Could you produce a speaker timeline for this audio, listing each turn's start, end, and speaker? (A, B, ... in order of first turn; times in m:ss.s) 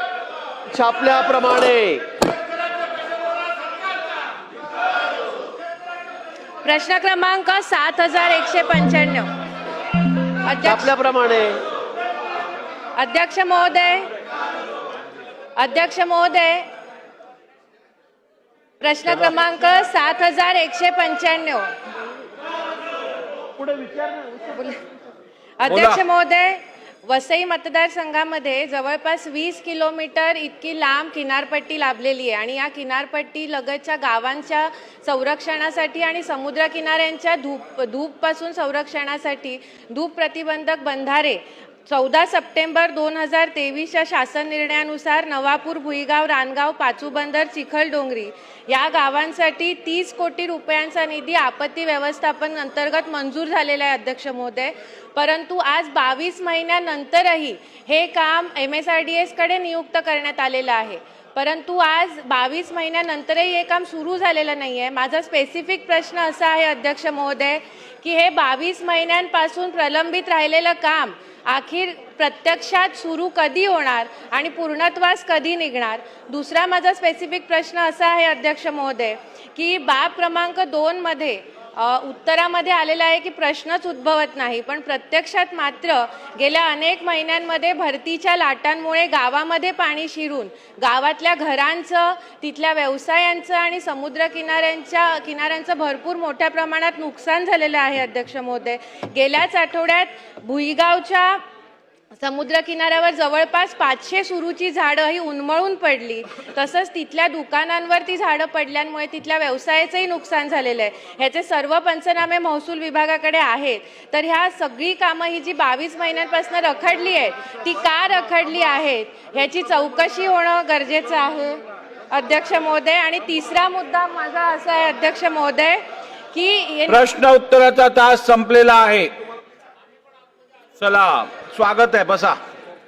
0:00.7-0:02.0 A
0:06.6-0:09.3 B
0:10.3-0:10.9 B
0:10.6-0:11.6 A
0:13.0-0:14.1 B
0:15.6-0:16.7 B
0:18.8-0:21.8 B
0:23.6-0:24.6 A
0:24.6-0:24.8 B
0:25.6-1:41.4 B
0:25.7-0:26.0 C
1:42.1-2:05.8 B
2:06.3-2:07.1 B
2:06.9-2:09.1 C
2:10.8-2:12.4 C